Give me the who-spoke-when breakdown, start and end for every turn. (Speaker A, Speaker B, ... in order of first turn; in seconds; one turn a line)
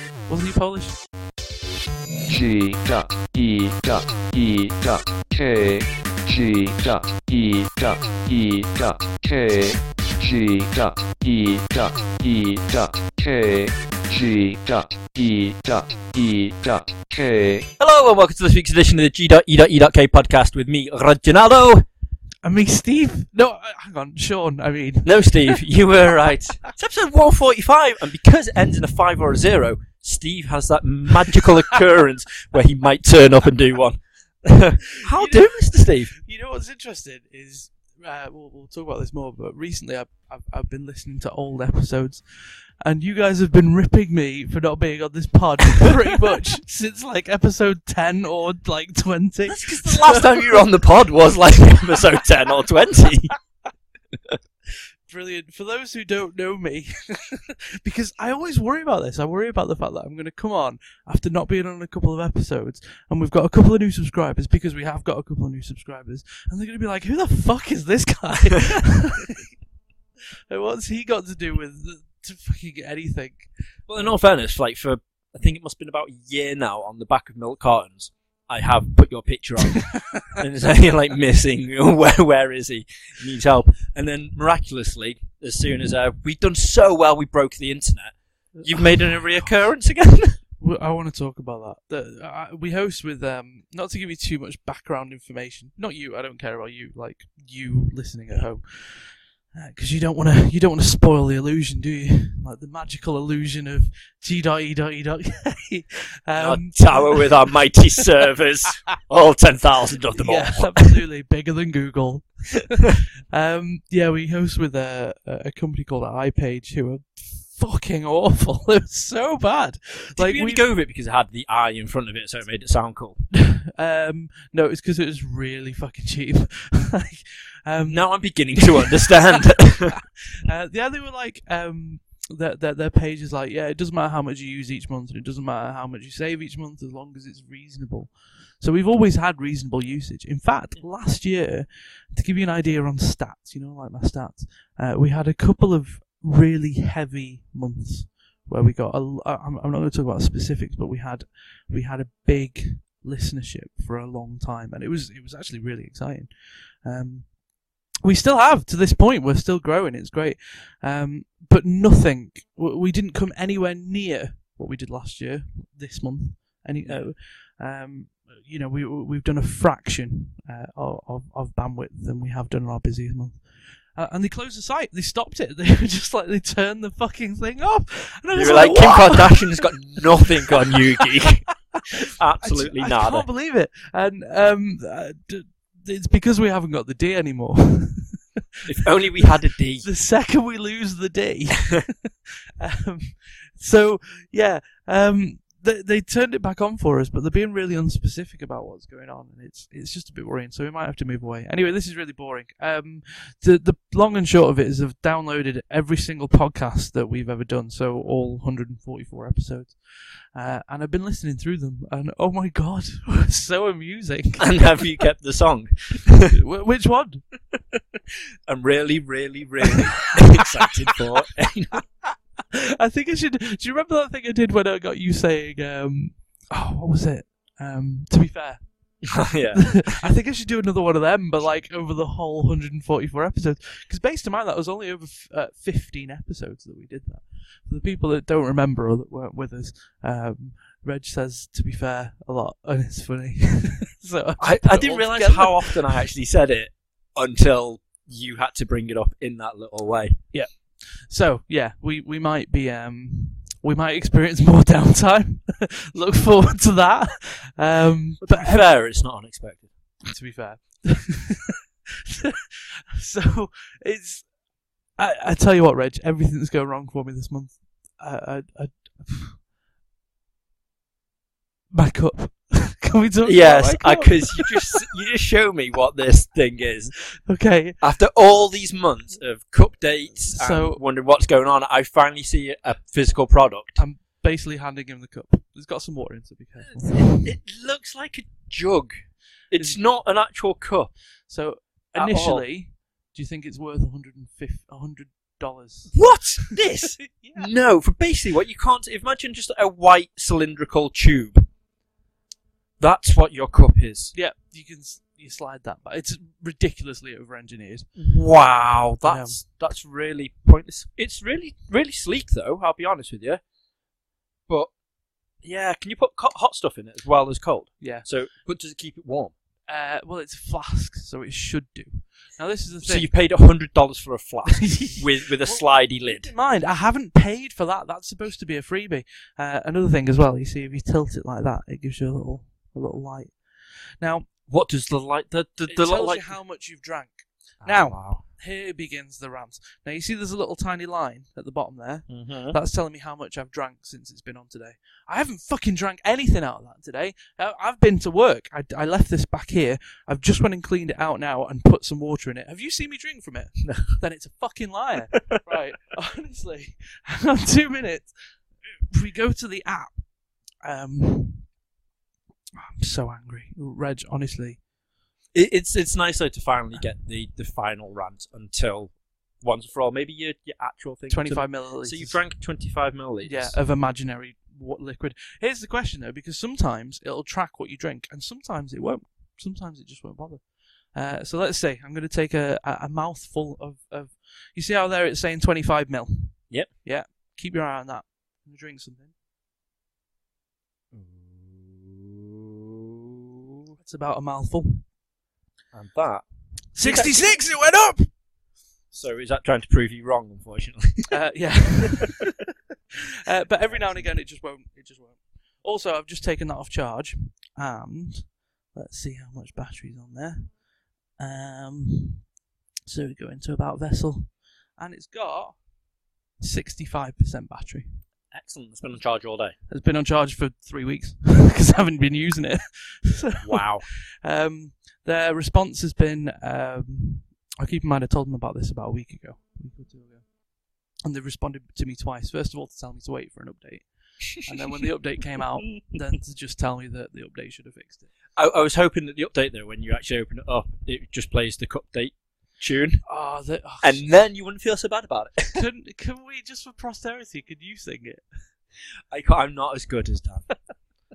Speaker A: 0.3-1.0
Speaker B: 2.3-17.7
Speaker C: 17.8-21.9
Speaker A: 22.4-25.6
Speaker C: 25.1-36.1
Speaker A: 35.1-50.4
Speaker C: 49.5-53.3
Speaker A: 55.1-69.5
Speaker A: 70.5-73.5
Speaker C: 73.9-90.4
Speaker A: 79.8-80.4
Speaker A: 88.6-89.5
Speaker A: 90.6-107.4
Speaker C: 106.4-111.0
Speaker A: 110.2-120.7
Speaker C: 120.2-123.2
Speaker A: 123.4-128.1
Speaker C: 127.9-130.0
Speaker A: 128.6-157.4
Speaker A: 158.0-179.7
Speaker C: 166.8-167.1
Speaker C: 178.3-181.5
Speaker A: 180.5-180.8
Speaker C: 182.1-183.3
Speaker A: 182.4-188.7
Speaker C: 188.7-189.9
Speaker A: 189.8-192.1
Speaker A: 192.6-214.7
Speaker C: 214.4-216.4
Speaker A: 216.3-217.2
Speaker C: 218.5-221.8
Speaker A: 220.3-220.7
Speaker A: 222.8-246.0
Speaker C: 229.1-230.0
Speaker C: 244.4-250.2
Speaker A: 250.3-258.7
Speaker C: 258.2-259.7
Speaker A: 260.1-261.6
Speaker A: 262.1-264.3
Speaker A: 265.0-269.4
Speaker A: 271.7-274.8
Speaker C: 273.2-276.9
Speaker A: 277.3-277.8
Speaker C: 277.8-283.8
Speaker A: 280.3-280.8
Speaker A: 283.8-287.3
Speaker C: 286.6-290.9
Speaker A: 289.5-289.8
Speaker A: 291.3-297.5
Speaker C: 291.9-292.4
Speaker C: 295.9-301.5
Speaker C: 302.8-304.1
Speaker A: 304.1-307.9
Speaker C: 308.0-313.4
Speaker A: 309.0-309.4
Speaker C: 315.4-319.3
Speaker A: 317.8-318.1
Speaker A: 319.7-323.1
Speaker C: 322.8-326.3
Speaker A: 324.5-334.3
Speaker C: 334.5-336.4
Speaker A: 335.7-358.1
Speaker C: 337.6-338.2
Speaker C: 342.1-342.6
Speaker C: 353.6-353.9
Speaker A: 358.9-360.1
Speaker A: 360.6-361.5
Speaker A: 362.6-364.6
Speaker C: 365.3-373.6
Speaker A: 371.1-372.2
Speaker A: 373.2-389.1
Speaker C: 390.9-393.2
Speaker A: 393.8-394.9
Speaker C: 395.7-396.2
Speaker A: 396.8-398.1
Speaker C: 396.8-397.2
Speaker C: 398.9-401.2
Speaker A: 401.1-402.3
Speaker A: 403.2-410.6
Speaker C: 403.7-404.1
Speaker A: 411.2-412.3
Speaker A: 412.9-415.6
Speaker A: 416.4-417.9
Speaker C: 418.3-419.6
Speaker A: 419.7-430.4
Speaker C: 423.4-423.9
Speaker A: 431.0-438.1
Speaker C: 434.4-434.9
Speaker C: 435.4-436.0
Speaker C: 438.4-443.0
Speaker A: 443.1-444.0
Speaker C: 443.8-445.7
Speaker A: 445.6-448.3
Speaker C: 449.1-450.5